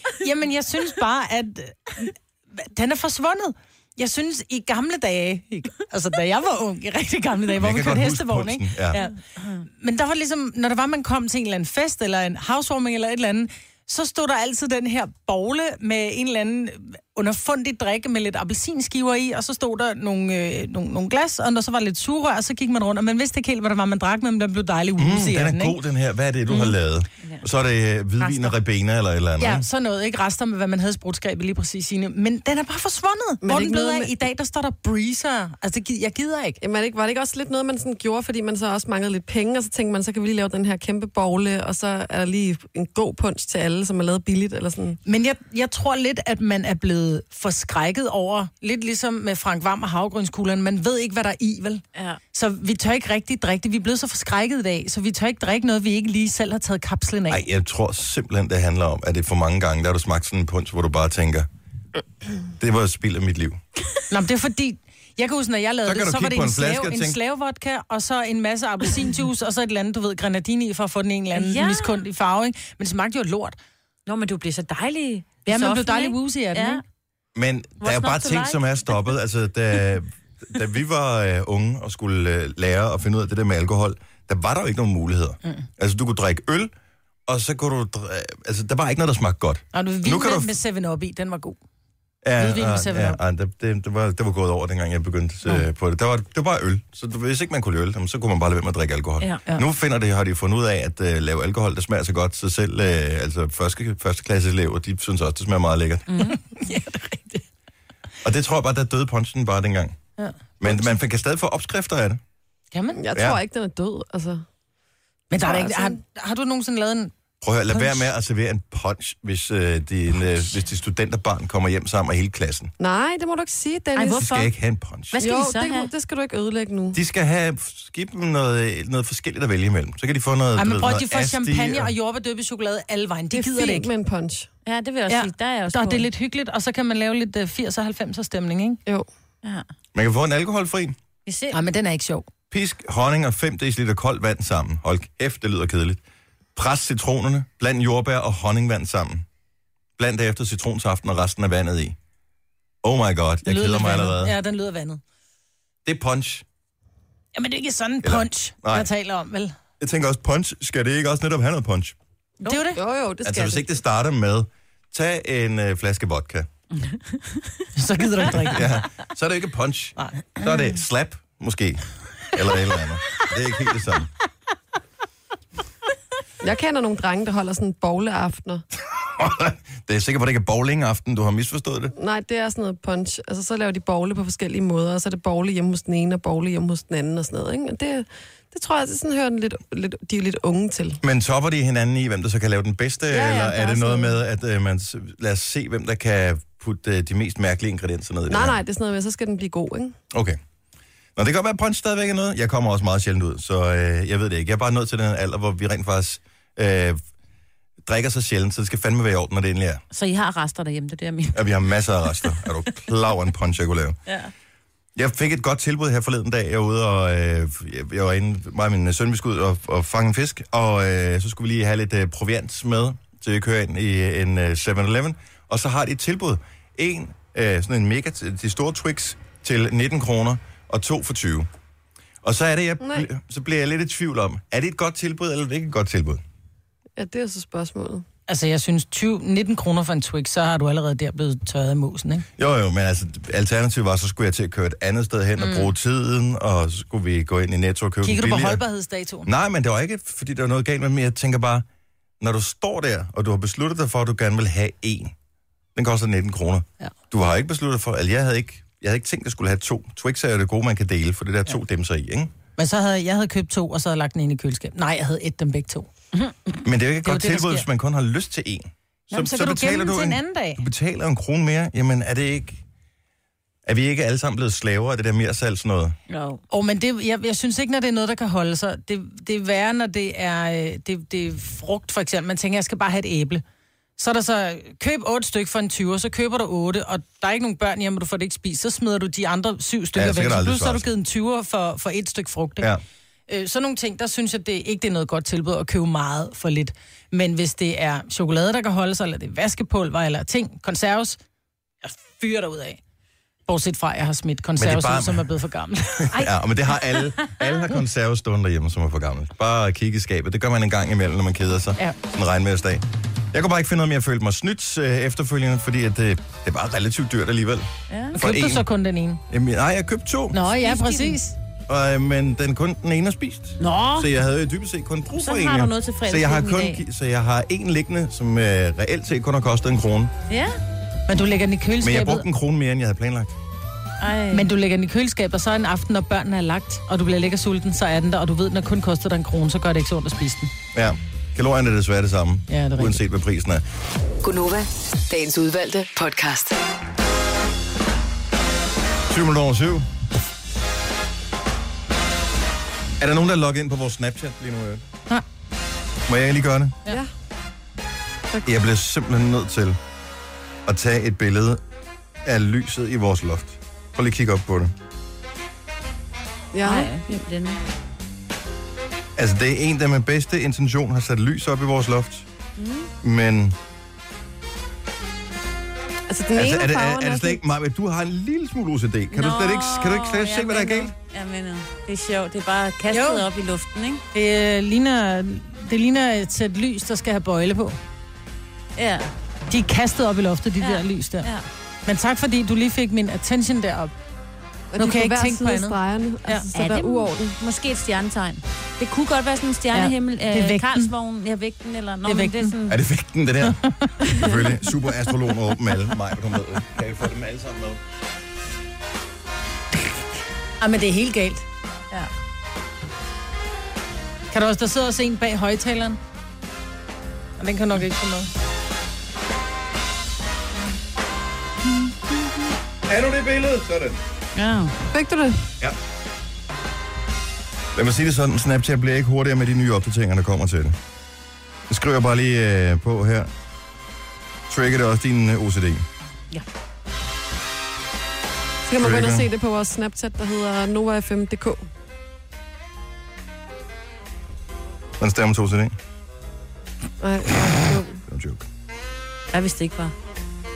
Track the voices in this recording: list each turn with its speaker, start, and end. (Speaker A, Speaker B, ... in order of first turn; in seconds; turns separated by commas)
Speaker A: 0.2-9.1, Speaker B: 7.6-9.0, Speaker C: 8.9-9.6, Speaker A: 9.8-25.8, Speaker B: 25.0-29.6, Speaker A: 29.4-36.6, Speaker D: 33.4-34.1, Speaker D: 36.6-45.0, Speaker A: 45.0-57.4, Speaker C: 51.9-52.2, Speaker B: 57.3-61.5, Speaker B: 62.6-63.6, Speaker A: 64.1-73.5, Speaker B: 65.8-67.2, Speaker C: 71.3-72.0, Speaker C: 74.1-76.8, Speaker A: 75.5-76.8, Speaker B: 77.3-86.7, Speaker C: 77.8-79.0, Speaker B: 87.3-90.6, Speaker A: 89.7-91.6, Speaker B: 92.2-106.2, Speaker A: 92.4-93.2, Speaker C: 106.1-106.4, Speaker A: 106.3-107.4, Speaker B: 108.2-110.0, Speaker A: 110.2-110.9, Speaker B: 110.6-112.2, Speaker A: 112.7-113.0, Speaker D: 112.9-114.4, Speaker B: 113.1-113.4, Speaker A: 115.3-117.1, Speaker D: 115.3-116.0, Speaker B: 117.4-122.7, Speaker A: 117.7-118.0, Speaker D: 122.8-124.2, Speaker C: 123.9-124.5, Speaker B: 124.1-125.2, Speaker C: 125.1-125.9, Speaker D: 125.2-127.0, Speaker B: 126.9-131.9, Speaker A: 130.6-133.9, Speaker D: 133.3-134.5, Speaker C: 134.7-136.1, Speaker A: 135.1-138.8, Speaker B: 139.9-140.9, Speaker C: 141.2-141.6, Speaker A: 141.5-142.3, Speaker B: 142.5-146.0, Speaker B: 146.6-149.2, Speaker B: 150.0-151.9, Speaker B: 152.8-154.3, Speaker A: 153.4-155.0, Speaker B: 155.8-156.4, Speaker A: 157.3-159.5, Speaker B: 158.0-158.9, Speaker B: 159.8-161.9, Speaker C: 162.4-162.7, Speaker A: 162.4-162.8, Speaker D: 162.7-163.6, Speaker B: 163.2-166.5, Speaker C: 166.8-167.6, Speaker A: 167.7-168.7, Speaker B: 168.3-174.1, Speaker A: 170.0-170.4, Speaker D: 176.4-178.6, Speaker B: 179.0-181.9, Speaker D: 181.9-191.0, Speaker B: 191.0-198.6, Speaker D: 193.1-194.1, Speaker D: 198.3-199.9, Speaker B: 200.1-200.4, Speaker B: 201.2-207.0, Speaker B: 207.8-209.8, Speaker C: 209.9-211.6, Speaker B: 211.3-214.0, Speaker C: 214.1-214.3, Speaker B: 214.9-231.5, Speaker B: 232.2-236.2, Speaker D: 237.0-238.0, Speaker A: 238.3-242.2, Speaker B: 242.4-248.6, Speaker A: 245.4-245.7, Speaker A: 248.0-249.3, Speaker B: 249.2-251.6, Speaker B: 252.2-255.1, Speaker B: 255.7-262.3, Speaker A: 262.6-265.9, Speaker B: 266.6-272.6, Speaker A: 267.0-267.7, Speaker A: 269.1-270.6, Speaker B: 273.6-276.0, Speaker C: 276.1-276.4, Speaker A: 276.5-283.4, Speaker A: 284.0-292.7, Speaker B: 289.9-290.9, Speaker A: 293.3-301.2, Speaker A: 301.8-302.8, Speaker A: 303.5-306.2, Speaker B: 304.6-305.3, Speaker B: 306.0-318.6, Speaker C: 317.9-318.1, Speaker A: 318.1-319.2, Speaker B: 319.3-320.4, Speaker A: 320.3-321.3, Speaker C: 320.6-321.2, Speaker B: 321.7-330.1, Speaker C: 323.6-324.1, Speaker C: 325.1-326.8, Speaker C: 330.3-330.6, Speaker A: 331.1-332.2, Speaker B: 331.8-333.3, Speaker C: 334.0-334.5, Speaker A: 334.3-340.5, Speaker B: 340.7-343.6, Speaker A: 342.5-343.0, Speaker E: 344.2-346.6, Speaker B: 349.1-349.9, Speaker B: 353.0-354.8, Speaker B: 356.1-356.8, Speaker B: 358.4-359.8, Speaker B: 360.6-361.6, Speaker B: 362.2-364.7, Speaker D: 366.5-366.9, Speaker C: 366.6-367.6, Speaker B: 369.1-372.2, Speaker C: 372.6-372.9, Speaker B: 373.0-373.6, Speaker D: 376.1-377.4, Speaker B: 376.3-380.9, Speaker C: 379.1-384.0, Speaker A: 382.9-383.2, Speaker A: 384.1-387.8, Speaker C: 388.8-389.1, Speaker A: 389.5-391.3, Speaker C: 390.6-391.4, Speaker A: 391.9-393.9, Speaker D: 394.7-397.3, Speaker A: 394.8-395.8, Speaker C: 396.5-402.8, Speaker A: 399.7-400.9, Speaker A: 402.1-402.5, Speaker B: 402.7-407.8, Speaker A: 403.4-403.9, Speaker A: 410.6-411.4, Speaker A: 414.3-416.0, Speaker A: 417.4-418.3, Speaker B: 422.9-424.0, Speaker C: 424.4-424.7, Speaker D: 424.9-425.4, Speaker B: 427.7-430.8, Speaker B: 431.7-433.3, Speaker B: 434.5-435.9, Speaker D: 438.6-441.6, Speaker B: 438.8-439.3, Speaker B: 445.0-445.8, Speaker D: 447.0-448.0, Speaker B: 448.1-448.4, Speaker C: 449.3-449.9